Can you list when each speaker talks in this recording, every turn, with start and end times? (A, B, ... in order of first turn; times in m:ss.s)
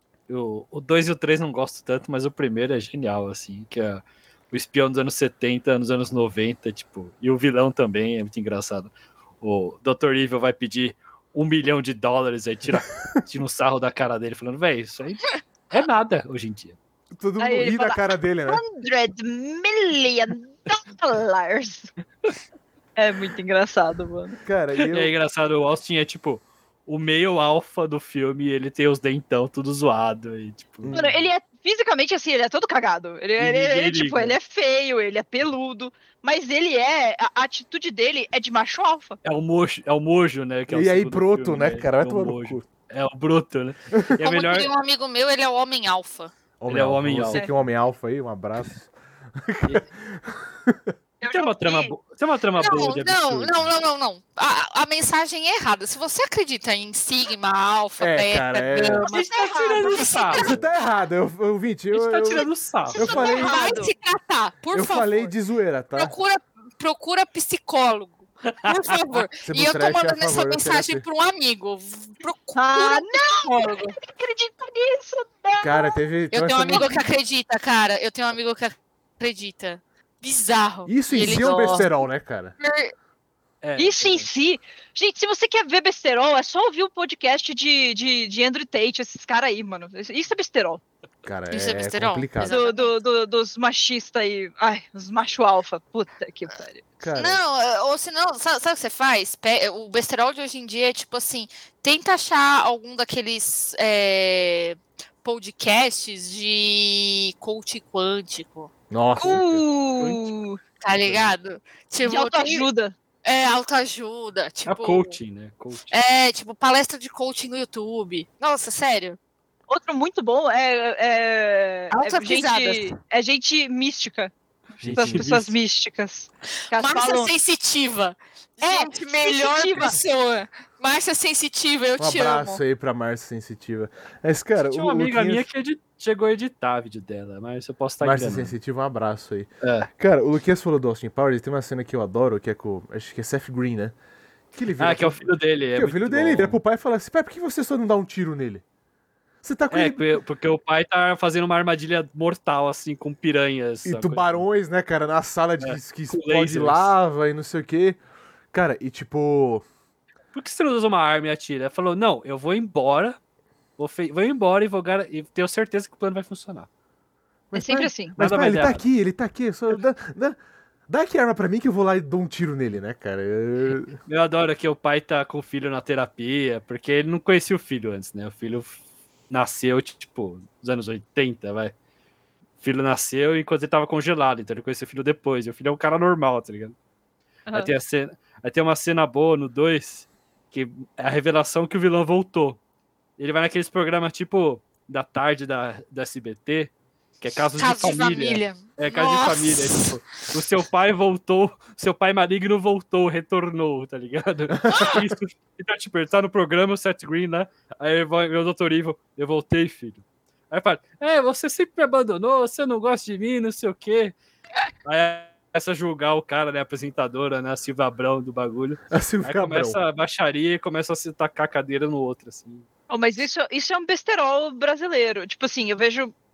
0:00.3-0:16.8 A
0:17.1-0:18.6 B
0:17.4-0:21.9 C
0:23.0-0:24.4 C
0:24.4-0:25.1 B
0:24.8-0:31.0 A
0:30.8-0:31.2 B
0:30.9-0:39.2 C
0:33.4-0:34.4 A
0:39.2-0:44.7 A
0:40.7-0:42.6 B
0:44.2-0:46.3 D
0:46.6-0:50.9 B
0:46.7-0:47.5 A
0:51.2-0:51.9 C
0:51.3-0:53.6 A
0:52.6-1:00.6 D
0:58.0-0:59.0 B
0:59.0-1:00.6 A
0:59.1-1:00.4 C
1:00.3-1:03.7 B
1:01.9-1:03.0 A
1:02.9-1:03.9 C
1:03.0-1:05.3 D
1:04.7-1:06.1 B
1:05.9-1:13.9 D
1:08.5-1:09.2 A
1:09.4-1:11.0 B
1:12.6-1:16.0 C
1:15.6-1:17.0 B
1:16.3-1:21.9 D
1:16.7-1:17.0 C
1:20.9-1:22.5 B
1:21.1-1:21.8 C
1:22.6-1:22.9 D
1:23.6-1:24.3 A
1:23.8-1:30.8 C
1:31.2-1:32.6 B
1:31.5-1:32.9 D
1:32.4-1:36.8 C
1:37.0-1:37.4 B
1:37.2-1:48.7 D
1:48.9-1:49.6 B
1:49.2-1:50.6 C
1:50.0-1:50.3 A
1:50.8-1:52.7 D
1:51.0-1:51.3 A
1:52.0-1:52.9 C
1:53.2-1:55.2 D
1:54.6-1:55.9 A
1:55.9-1:59.2 D
1:59.7-2:04.3 C
2:01.9-2:03.0 D
2:04.8-2:05.5 A
2:04.9-2:05.3 B
2:04.9-2:07.3 C
2:06.7-2:12.6 D
2:08.6-2:10.0 C
2:12.0-2:15.4 B
2:14.6-2:18.6 A
2:18.0-2:24.0 B
2:19.6-2:19.9 A
2:24.5-2:28.6 B
2:24.8-2:26.6 A
2:29.4-2:30.0 B
2:29.7-2:34.4 A
2:33.8-2:38.0 B
2:35.6-2:36.9 A
2:38.5-2:39.6 B
2:40.3-2:43.2 A
2:43.8-2:46.7 A
2:47.5-2:54.0 B
2:47.5-2:48.1 C
2:48.2-2:48.8 A
2:54.1-2:58.8 A
2:59.3-3:01.7 A
3:02.6-3:06.8 A
3:07.5-3:07.7 C
3:07.5-3:12.6 A
3:13.2-3:34.2 A
3:17.6-3:19.8 D
3:24.7-3:25.0 D
3:34.8-3:42.6 A
3:38.9-3:39.8 B
3:42.9-3:46.1 C